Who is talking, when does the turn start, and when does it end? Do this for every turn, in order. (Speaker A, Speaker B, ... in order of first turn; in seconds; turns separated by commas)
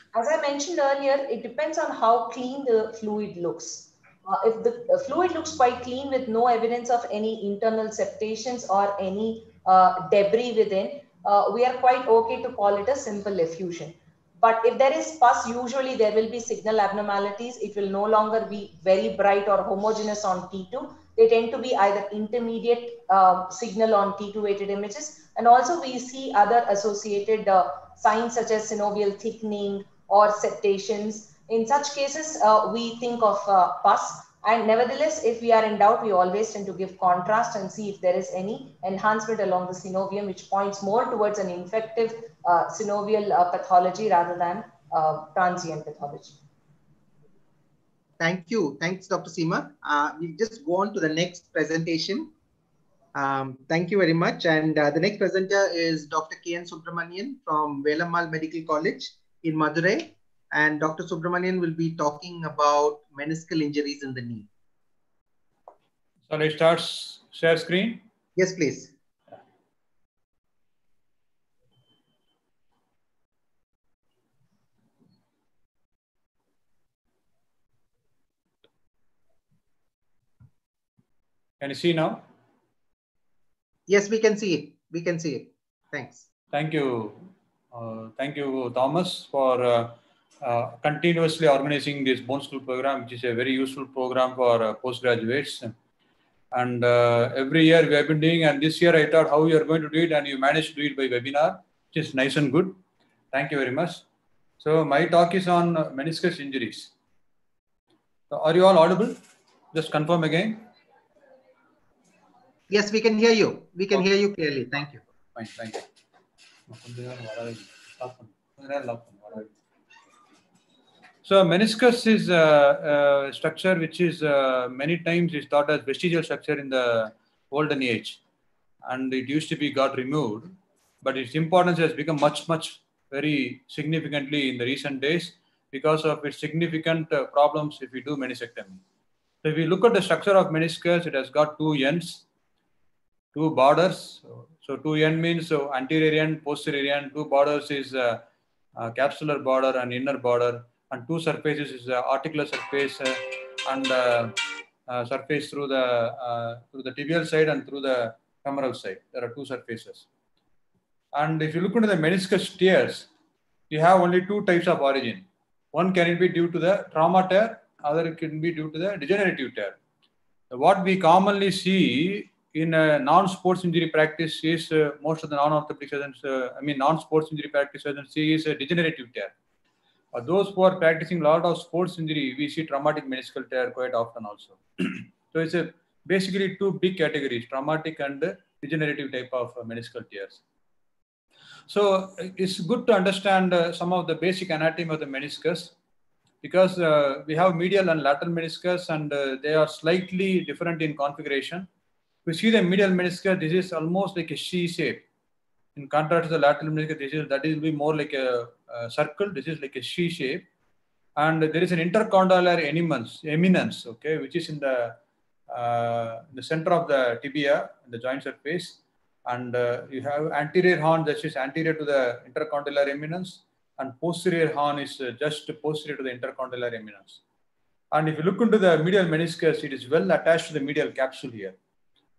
Speaker A: 0.1-46.4, Speaker B: 48.2-52.3, Speaker B: 53.1-64.5, Speaker C: 66.3-68.0, Speaker B: 68.4-68.9, Speaker C: 81.6-82.2, Speaker B: 83.9-86.2, Speaker C: 86.5-95.7, Speaker C: 96.5-102.8, Speaker C: 103.3-104.0, Speaker C: 104.6-106.9, Speaker C: 108.3-109.2, Speaker C: 109.7-110.7, Speaker B: 112.7-115.0, Speaker C: 115.3-115.9, Speaker C: 116.7-119.5, Speaker C: 121.2-128.2, Speaker C: 128.8-138.8, Speaker C: 139.4-142.2, Speaker C: 143.3-148.2, Speaker C: 148.8-160.1, Speaker C: 161.1-163.1, Speaker C: 163.7-169.8, Speaker C: 170.5-179.3, Speaker C: 180.1-190.4, Speaker C: 191.7-195.7, Speaker C: 196.4-201.7, Speaker C: 202.3-205.0, Speaker C: 205.8-210.4, Speaker C: 211.2-215.0, Speaker C: 215.5-227.2, Speaker C: 227.9-231.6